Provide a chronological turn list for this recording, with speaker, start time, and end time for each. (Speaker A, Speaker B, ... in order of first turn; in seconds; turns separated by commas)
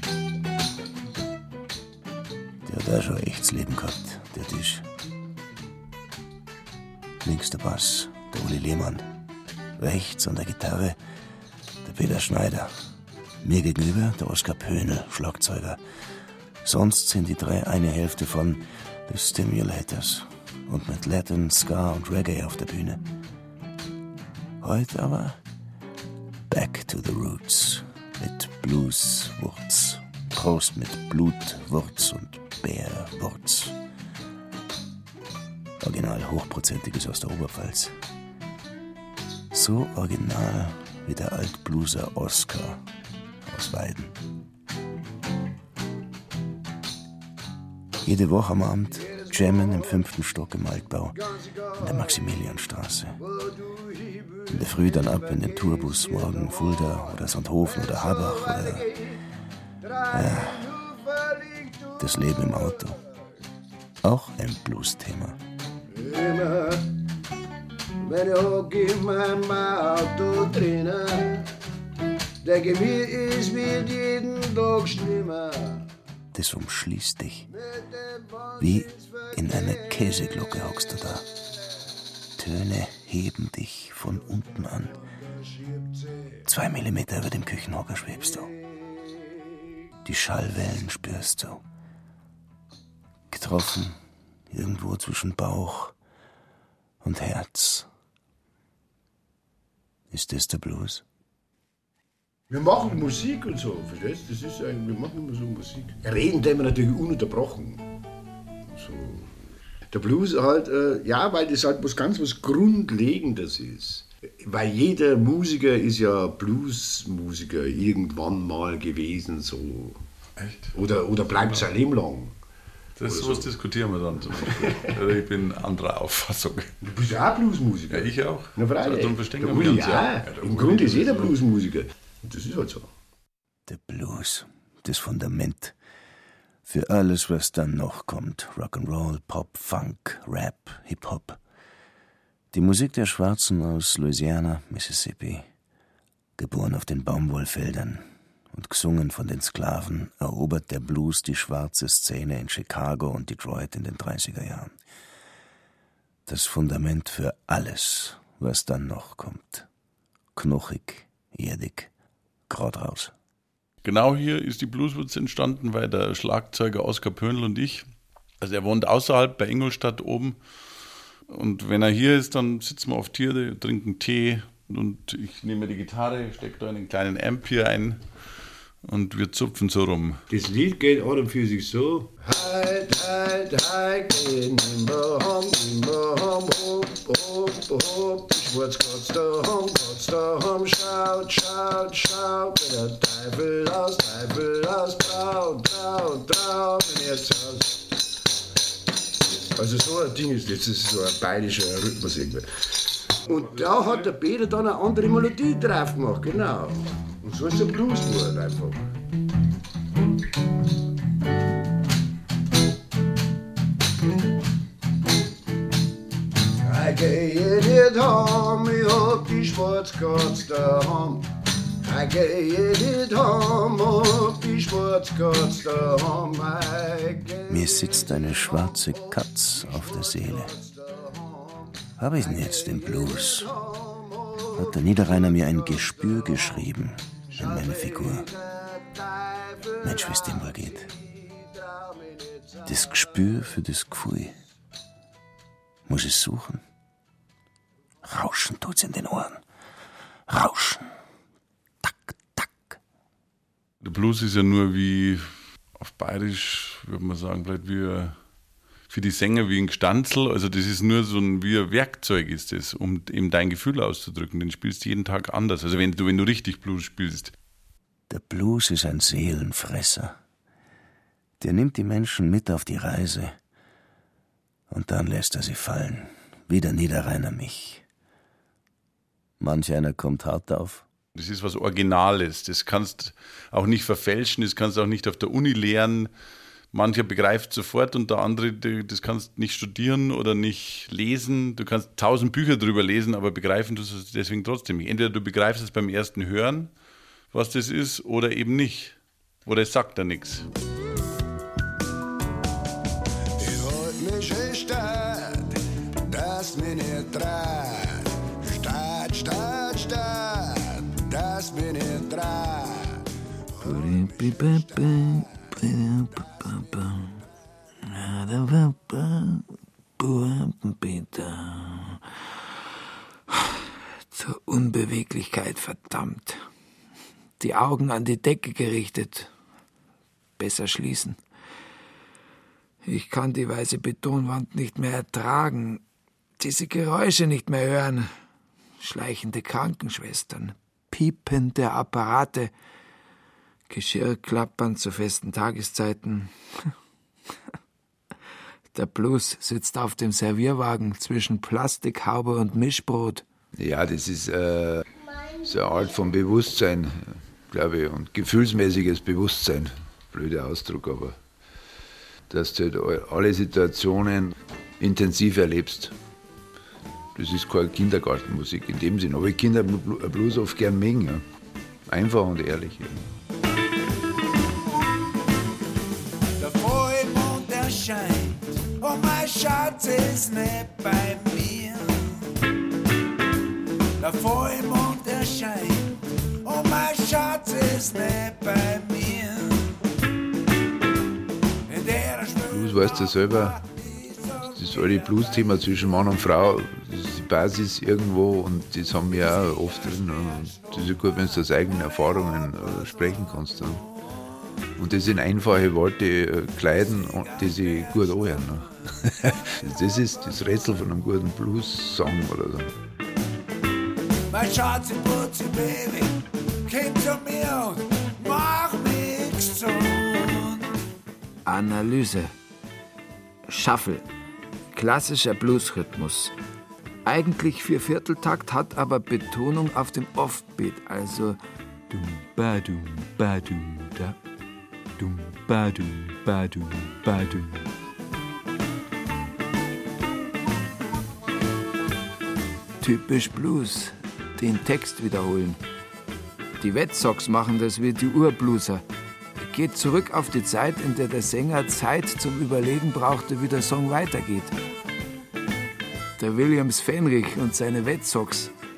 Speaker A: 2.6-4.9, Speaker A: 7.2-9.1, Speaker A: 9.8-11.0, Speaker A: 11.8-12.7, Speaker A: 13.4-15.8, Speaker A: 16.6-23.0, Speaker A: 24.6-25.4, Speaker A: 26.5-33.8, Speaker A: 35.8-37.9, Speaker A: 39.5-42.8, Speaker A: 43.5-44.1, Speaker A: 48.0-51.2, Speaker A: 51.8-53.2, Speaker B: 53.2-54.5, Speaker A: 54.5-58.9, Speaker B: 55.1-57.0, Speaker B: 57.9-59.1, Speaker B: 59.8-61.9, Speaker A: 60.1-60.7, Speaker A: 62.0-63.0, Speaker A: 64.0-65.4, Speaker B: 65.9-66.9, Speaker B: 68.0-71.5, Speaker B: 72.4-75.9, Speaker A: 76.3-77.5, Speaker B: 78.1-79.0, Speaker A: 78.6-81.3, Speaker A: 82.4-85.0, Speaker A: 86.5-88.5, Speaker A: 90.0-91.6, Speaker A: 93.3-94.0, Speaker A: 94.5-96.0, Speaker A: 97.0-97.9, Speaker A: 100.1-101.0, Speaker B: 102.5-107.8, Speaker B: 108.7-109.4, Speaker B: 109.9-120.0, Speaker C: 120.4-120.7, Speaker B: 120.7-122.3, Speaker C: 123.0-126.7, Speaker B: 123.1-123.5, Speaker B: 124.5-124.9, Speaker B: 126.8-132.9, Speaker C: 127.9-131.3, Speaker A: 133.7-135.8, Speaker A: 136.7-141.4, Speaker A: 142.5-145.5, Speaker A: 146.4-154.8, Speaker A: 156.3-159.7, Speaker A: 160.3-161.9, Speaker A: 162.5-163.1, Speaker C: 163.8-167.9, Speaker C: 168.4-170.4, Speaker C: 171.3-178.0, Speaker C: 178.8-180.2, Speaker B: 180.3-197.8, Speaker B: 199.6-208.8, Speaker B: 216.6-221.3, Speaker B: 221.8-229.0, Speaker A: 227.5-230.5, Speaker B: 229.6-231.6, Speaker A: 232.0-233.5, Speaker B: 232.2-234.6, Speaker A: 234.6-238.3, Speaker B: 237.4-243.0, Speaker A: 239.8-240.9, Speaker A: 242.7-244.3, Speaker A: 245.9-246.6, Speaker A: 248.1-249.4, Speaker A: 250.3-250.9, Speaker A: 251.8-252.8, Speaker C: 253.8-258.2, Speaker C: 258.9-267.3, Speaker A: 268.1-270.2, Speaker A: 271.4-273.4, Speaker A: 274.7-277.8, Speaker A: 279.4-280.9, Speaker C: 281.1-286.1, Speaker C: 286.7-296.7, Speaker C: 297.3-300.5, Speaker B: 303.4-305.6, Speaker B: 306.1-313.0, Speaker D: 313.6-317.2, Speaker D: 317.8-322.0, Speaker D: 323.3-323.6, Speaker D: 324.1-326.4, Speaker D: 327.4-329.3, Speaker D: 330.4-331.2, Speaker D: 332.9-335.8, Speaker D: 336.4-338.1, Speaker D: 338.8-342.5, Speaker D: 343.7-346.3, Speaker D: 348.7-353.2, Speaker E: 353.6-354.8, Speaker E: 355.4-361.2, Speaker E: 362.3-365.9, Speaker E: 367.2-371.2, Speaker E: 371.9-373.0, Speaker F: 376.4-382.2, Speaker F: 384.0-389.8, Speaker F: 391.7-395.1, Speaker E: 392.5-393.6, Speaker E: 394.5-403.9, Speaker E: 404.8-412.7, Speaker F: 414.3-420.6, Speaker D: 421.5-422.3, Speaker D: 423.5-424.0, Speaker D: 424.7-426.3, Speaker D: 427.1-431.4, Speaker D: 431.9-434.1, Speaker D: 435.0-437.6, Speaker D: 442.8-445.6, Speaker D: 446.6-448.8, Speaker D: 449.4-454.5, Speaker D: 456.2-458.5